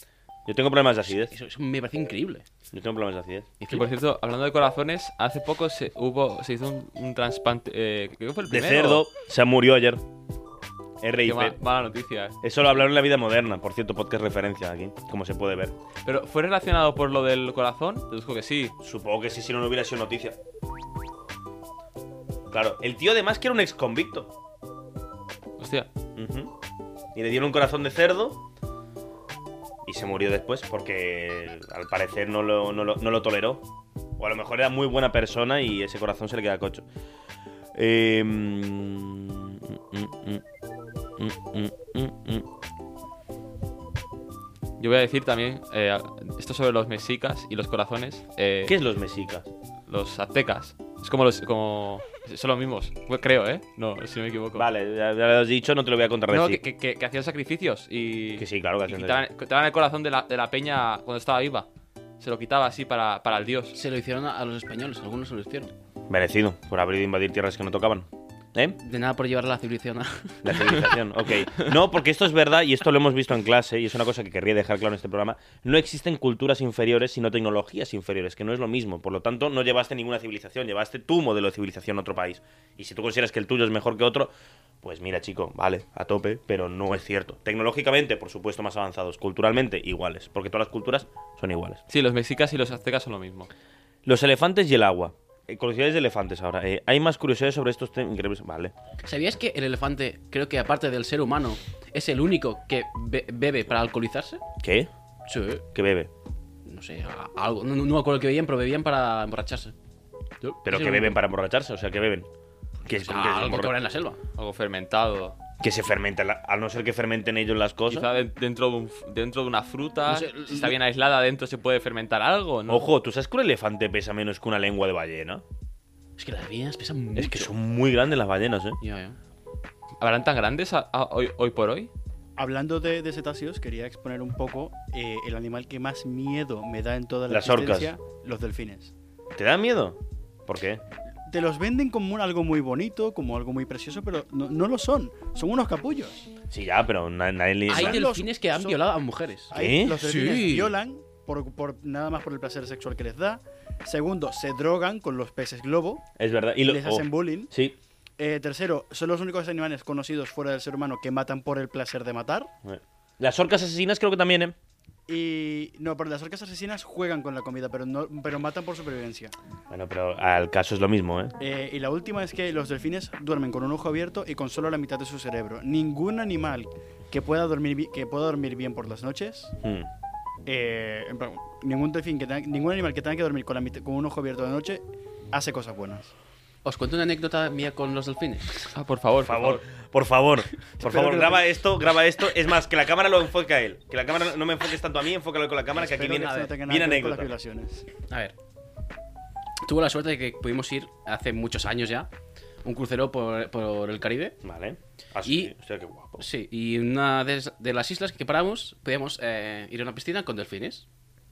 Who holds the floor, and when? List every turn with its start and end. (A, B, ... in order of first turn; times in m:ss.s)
0:00.5-0:01.3 A
0:01.3-0:02.5 B
0:02.7-0:03.5 A
0:03.6-0:03.9 B
0:03.7-0:09.1 C
0:08.5-0:10.0 A
0:11.0-0:11.6 A
0:11.2-0:12.4 C
0:12.4-0:15.8 A
0:16.1-0:18.8 C
0:18.8-0:20.4 A
0:22.5-0:24.3 A
0:25.6-0:25.9 C
0:26.2-0:26.5 A
0:27.2-0:28.4 A
0:29.8-0:33.7 A
0:34.2-0:36.9 A
0:37.8-0:40.4 A
0:41.2-0:42.5 A
0:44.8-0:48.8 C
0:48.6-0:49.5 A
0:49.9-0:54.7 C
0:54.6-0:56.6 A
0:56.3-1:01.7 C
0:58.4-0:59.2 A
1:02.2-1:03.8 C
1:03.7-1:05.7 B
1:06.1-1:08.8 A
1:08.8-1:10.9 B
1:10.4-1:31.8 A
1:31.9-1:33.5 C
1:34.0-1:38.7 A
1:39.0-1:44.4 B
1:44.6-1:44.9 A
1:45.3-1:45.6 B
1:45.7-1:46.1 A
1:46.7-1:49.7 B
1:50.4-1:51.2 B
1:50.6-1:52.3 A
1:52.9-1:53.7 A
1:52.9-1:54.2 B
1:54.4-1:55.4 C
1:55.6-1:58.1 A
1:57.9-2:02.9 C
2:00.1-2:00.8 B
2:02.7-2:05.4 A
2:06.2-2:07.5 B
2:07.2-2:08.8 A
2:08.8-2:09.2 B
2:10.0-2:11.9 C
2:12.4-2:18.9 D
2:17.3-2:17.9 A
2:19.4-2:20.8 A
2:21.3-2:26.3 D
2:26.5-2:28.0 A
2:27.7-2:30.7 B
2:27.7-2:28.9 D
2:29.5-2:36.0 D
2:29.5-2:30.0 A
2:36.2-2:37.8 A
2:36.6-2:37.5 D
2:38.2-2:42.5 D
2:42.6-2:44.6 A
2:45.1-2:49.3 D
2:49.7-2:51.4 A
2:51.4-2:59.6 D
2:59.6-2:59.9 A
3:00.5-3:06.1 D
3:06.6-3:08.7 B
3:08.7-3:09.6 C
3:09.2-3:17.4 A
3:10.8-3:11.5 D
3:15.7-3:17.9 D
3:18.1-3:18.4 B
3:19.6-3:22.1 B
3:22.6-3:24.4 B
3:24.4-3:26.3 A
3:25.2-3:25.5 B
3:26.2-3:30.9 B